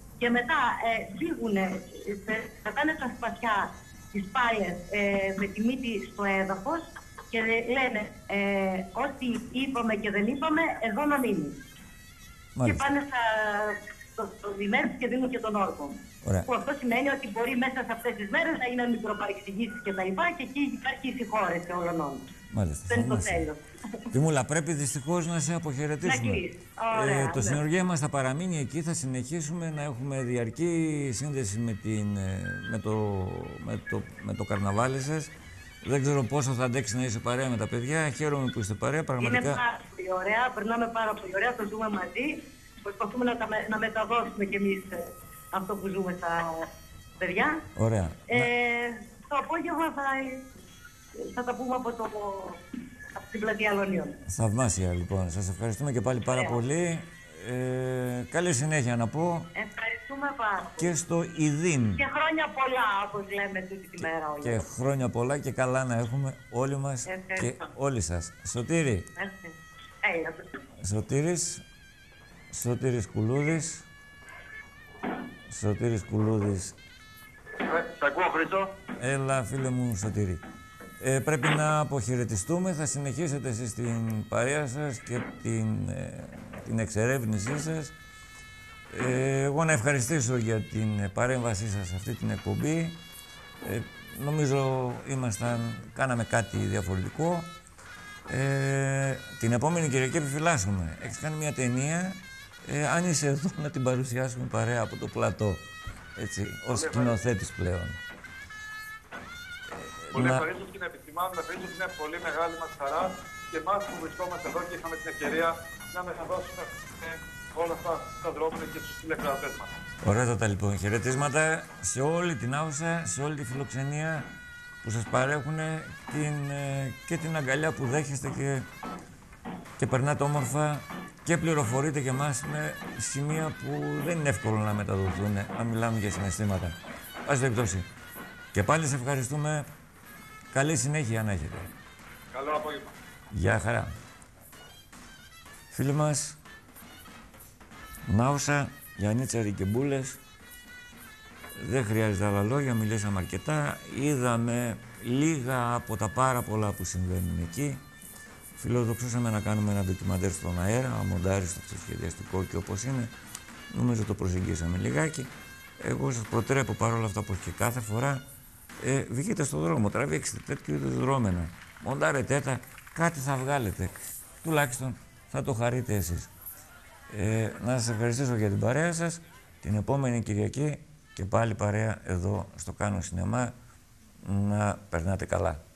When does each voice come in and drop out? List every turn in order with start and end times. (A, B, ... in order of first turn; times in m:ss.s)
0:00.2-0:11.6 A
0:12.6-0:12.9 B
0:12.6-0:22.2 A
0:16.2-0:16.5 B
0:22.5-0:23.4 B
0:22.9-0:24.0 A
0:24.1-0:35.3 B
0:26.0-0:27.6 A
0:35.8-0:39.6 B
0:39.2-0:47.6 A
0:47.8-0:48.5 B
0:48.3-0:50.4 A
0:51.2-0:52.6 A
0:53.1-0:54.2 A
0:54.3-0:59.5 B
0:56.3-0:56.6 A
0:59.6-1:00.9 A
1:00.8-1:02.0 B
1:02.0-1:04.6 A
1:04.0-1:09.1 B
1:07.1-1:07.7 A
1:09.2-1:10.5 A
1:10.8-1:11.6 B
1:12.5-1:13.9 B
1:15.5-1:16.8 B
1:17.7-1:18.7 C
1:19.0-1:20.4 B
1:21.0-1:27.9 B
1:28.9-1:33.0 B
1:33.6-1:37.5 B
1:38.3-1:45.6 B
1:46.2-1:48.0 B
1:46.7-1:47.2 C
1:49.7-1:50.4 B
1:50.1-1:59.7 C
2:00.0-2:04.3 B
2:04.8-2:08.7 B
2:09.8-2:17.9 B
2:18.5-2:19.7 B
2:20.5-2:21.7 B
2:22.3-2:22.9 C
2:23.3-2:23.9 B
2:25.7-2:26.4 B
2:28.1-2:30.2 B
2:31.6-2:37.8 B
2:38.6-2:43.1 B
2:43.7-2:48.2 B
2:48.8-2:56.3 B
2:57.1-3:03.5 B
3:04.2-3:05.6 B